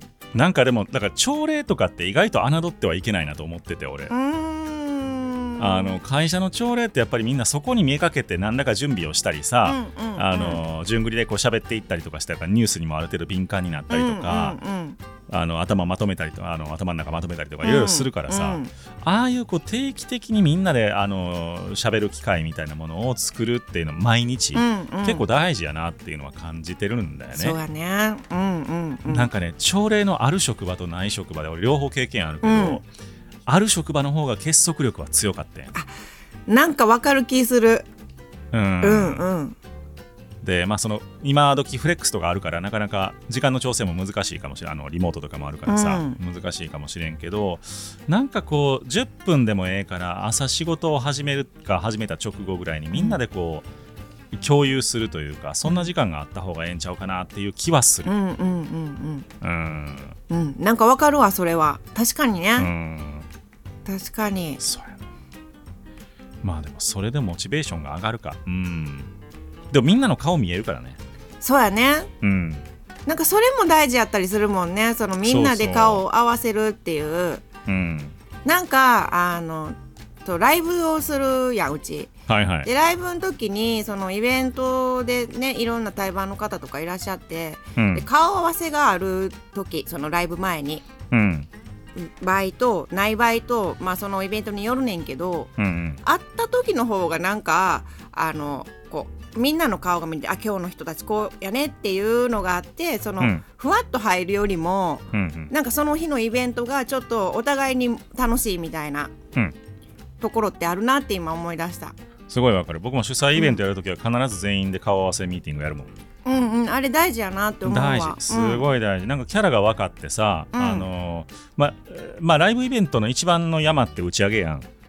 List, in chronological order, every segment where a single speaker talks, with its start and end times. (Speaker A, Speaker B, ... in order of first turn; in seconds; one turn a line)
Speaker A: 0.3-4.1
Speaker B: 4.1-5.9
Speaker A: 5.6-14.6
Speaker B: 9.7-10.6
Speaker B: 13.9-15.0
Speaker A: 15.3-27.6
Speaker B: 17.6-18.7
Speaker B: 24.6-25.2
Speaker B: 27.4-29.3
Speaker A: 29.1-32.8
Speaker B: 32.4-32.8
Speaker A: 33.5-35.7
Speaker B: 36.5-37.9
Speaker A: 38.5-39.3
Speaker B: 38.8-39.6
Speaker A: 40.4-53.7
Speaker B: 45.7-46.2
Speaker B: 52.9-53.2
Speaker A: 54.3-58.1
Speaker B: 55.6-55.9
Speaker B: 58.1-59.3
Speaker A: 59.4-60.2
Speaker B: 60.3-62.7
Speaker A: 62.6-63.3
Speaker B: 63.9-64.6
Speaker A: 64.6-65.0
Speaker A: 66.4-69.1
Speaker A: 69.7-71.0
Speaker B: 71.4-72.1
Speaker A: 72.2-72.7
Speaker B: 73.1-77.5
Speaker A: 75.2-76.0
Speaker A: 77.7-78.2
Speaker B: 78.4-82.1
Speaker A: 82.3-82.7
Speaker B: 82.6-90.8
Speaker A: 87.8-88.0
Speaker A: 91.1-91.5
Speaker B: 92.0-95.5
Speaker A: 95.6-96.0
Speaker B: 96.0-109.1
Speaker A: 103.2-103.4
Speaker A: 105.1-105.5
Speaker B: 110.2-112.0
Speaker A: 112.3-115.9
Speaker B: 113.3-113.6
Speaker B: 116.2-118.7
Speaker A: 117.7-124.7
Speaker B: 120.5-120.9